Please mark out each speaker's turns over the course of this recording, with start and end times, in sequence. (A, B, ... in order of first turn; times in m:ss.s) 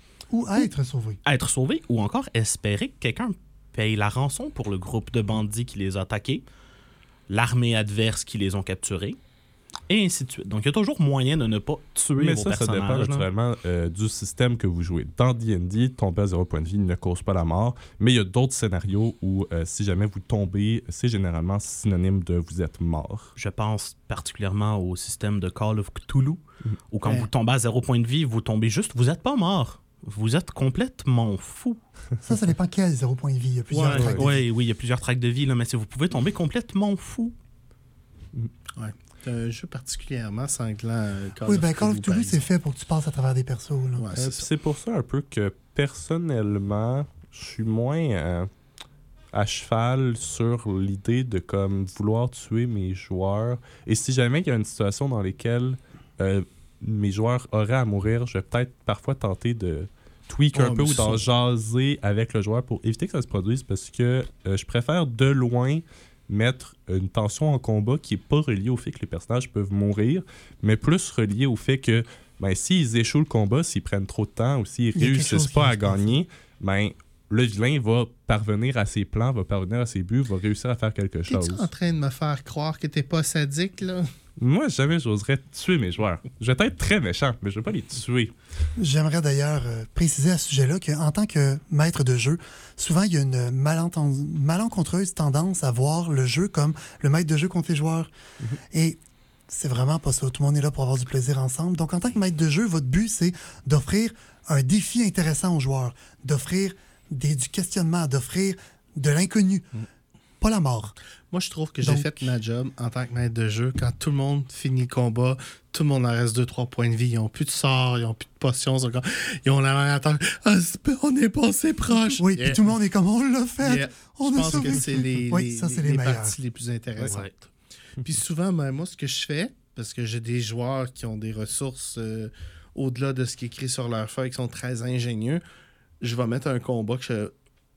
0:00.3-0:01.2 A
0:01.2-0:06.4 B
0:07.3-0:09.2 B
0:09.9-0:13.3 B
0:12.2-0:23.3 C
0:23.4-0:31.8 B
0:32.2-0:34.3 A
0:33.7-0:34.4 D
0:33.9-0:37.4 B
0:33.9-0:34.2 C
0:38.8-0:42.5 D
0:41.5-0:44.1 A
0:44.0-0:44.5 D
0:44.2-0:48.5 C
0:49.3-1:21.7 C
1:00.5-1:01.2 D
1:15.0-1:16.1 A
1:21.3-1:24.1 D
1:24.4-1:28.4 C
1:28.8-1:38.1 A
1:38.7-1:39.0 A
1:39.5-1:49.7 A
1:50.4-1:51.0 A
1:51.3-2:02.7 D
1:51.8-1:52.3 A
2:02.2-2:06.4 A
2:03.6-2:07.5 D
2:07.0-2:07.3 B
2:08.0-2:15.4 D
2:16.0-2:17.3 D